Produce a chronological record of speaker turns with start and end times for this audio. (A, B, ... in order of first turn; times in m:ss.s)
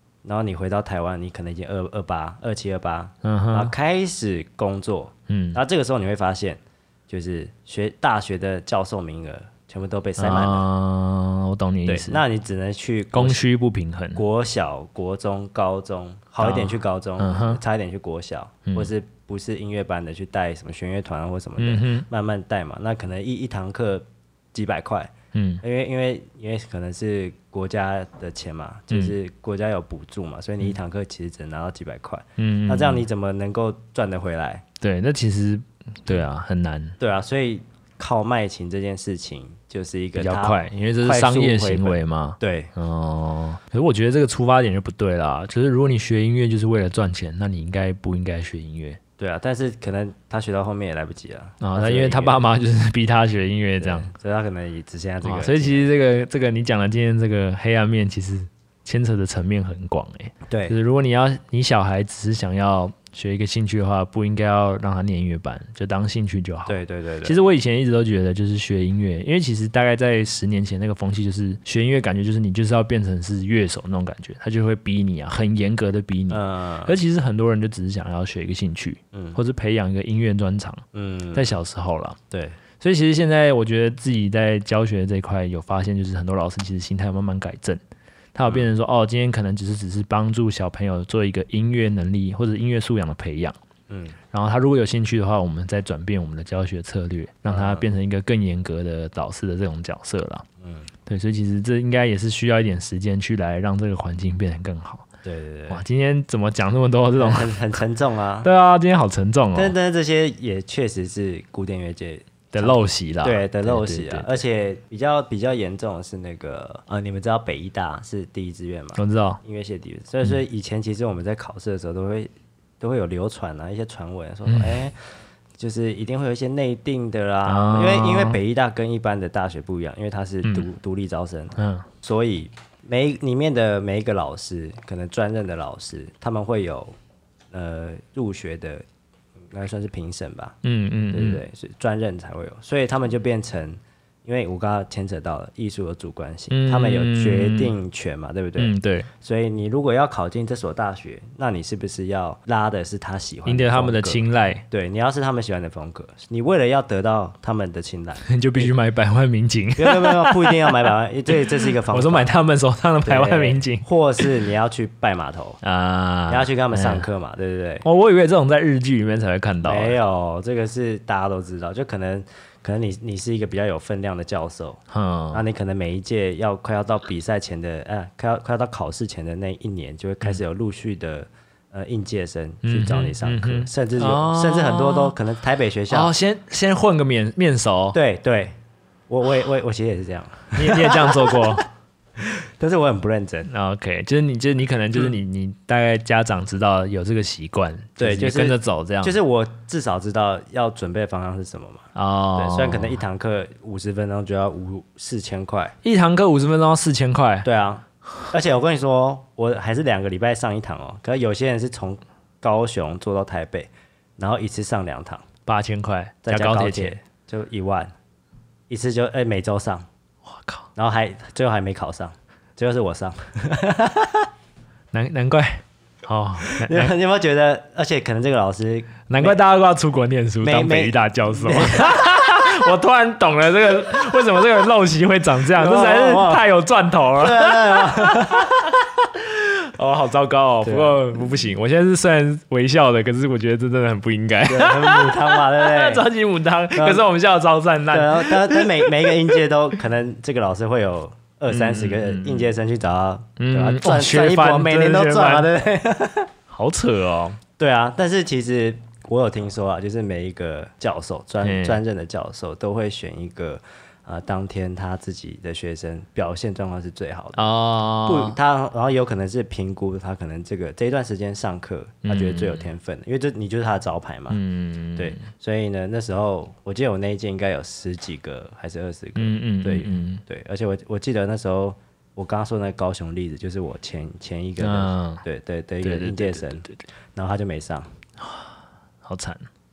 0:00.2-0:10.7 A
0:03.2-0:03.7 B
0:05.3-0:05.6 B
0:10.2-0:12.2 B
0:11.9-0:13.4 A
0:13.1-0:14.2 B
0:14.2-0:25.1 A
0:16.4-0:17.6 B
0:21.6-0:22.1 B
0:25.3-0:25.6 B
0:25.6-0:34.6 A
0:28.9-0:29.2 B
0:32.4-0:33.1 B
0:34.8-0:37.0 B
0:37.0-0:42.7 A
0:40.2-0:49.0 B
0:49.2-0:52.4 A
0:51.6-0:54.1 B
0:53.8-0:55.9 A
0:55.2-1:20.8 B
1:00.5-1:00.8 A
1:06.7-1:07.4 A
1:16.3-1:17.0 A
1:19.1-1:19.4 A
1:20.9-1:21.6 A
1:21.3-1:22.2 B
1:22.3-1:22.6 A
1:22.8-1:27.8 B
1:28.4-1:33.6 B
1:33.9-1:34.2 A
1:34.3-1:40.4 B
1:37.5-1:37.8 A
1:40.6-1:40.9 A
1:41.1-1:45.1 B
1:45.2-1:45.8 A
1:45.7-1:47.6 B
1:47.2-1:48.5 A
1:48.4-1:49.8 B
1:49.5-2:05.0 A
1:52.5-1:54.4 B
1:59.0-1:59.4 B
2:04.5-2:04.8 B
2:05.6-2:17.0 A
2:07.5-2:08.4 B
2:11.6-2:11.9 B
2:17.5-2:18.8 A
2:19.5-2:20.6 A
2:20.6-2:21.4 B
2:21.1-2:38.7 A
2:26.5-2:27.8 B
2:28.6-2:29.1 B
2:33.5-2:34.6 B
2:38.3-2:40.8 B
2:39.8-2:42.3 A
2:41.5-2:44.3 B
2:43.0-2:45.6 A
2:45.6-2:47.1 B
2:46.3-2:47.8 A
2:47.8-2:50.0 B
2:49.6-2:54.8 A
2:54.9-2:55.4 B
2:55.3-3:06.1 A
3:02.6-3:05.2 B
3:05.9-3:08.0 B
3:07.9-3:08.6 A
3:09.1-3:11.6 A
3:10.6-3:11.6 B
3:12.2-3:13.5 A
3:13.5-3:19.2 B
3:18.0-3:25.8 A
3:22.0-3:23.0 B
3:25.8-3:27.5 B
3:27.4-3:35.3 A
3:35.5-3:37.0 B
3:36.2-3:37.9 A
3:38.7-3:39.9 A
3:40.2-3:40.7 B
3:40.8-3:44.3 A
3:44.9-3:46.9 B
3:46.4-3:49.4 A
3:49.1-4:09.2 B
3:50.4-3:52.2 A
3:55.6-3:56.4 A
3:57.2-3:58.7 A
4:00.6-4:01.2 A
4:04.4-4:06.1 A
4:06.7-4:07.0 A
4:07.9-4:16.3 A
4:11.5-4:12.5 B
4:13.4-4:15.5 B
4:16.5-4:17.4 B
4:17.6-4:27.4 A
4:21.4-4:21.8 B
4:27.4-4:28.4 B
4:28.0-4:34.4 A
4:32.0-4:32.7 B
4:34.3-4:35.2 B
4:35.0-4:47.9 A
4:39.2-4:40.2 B
4:44.6-4:45.2 B
4:45.8-4:46.8 B
4:48.2-4:48.5 B
4:49.0-4:49.5 B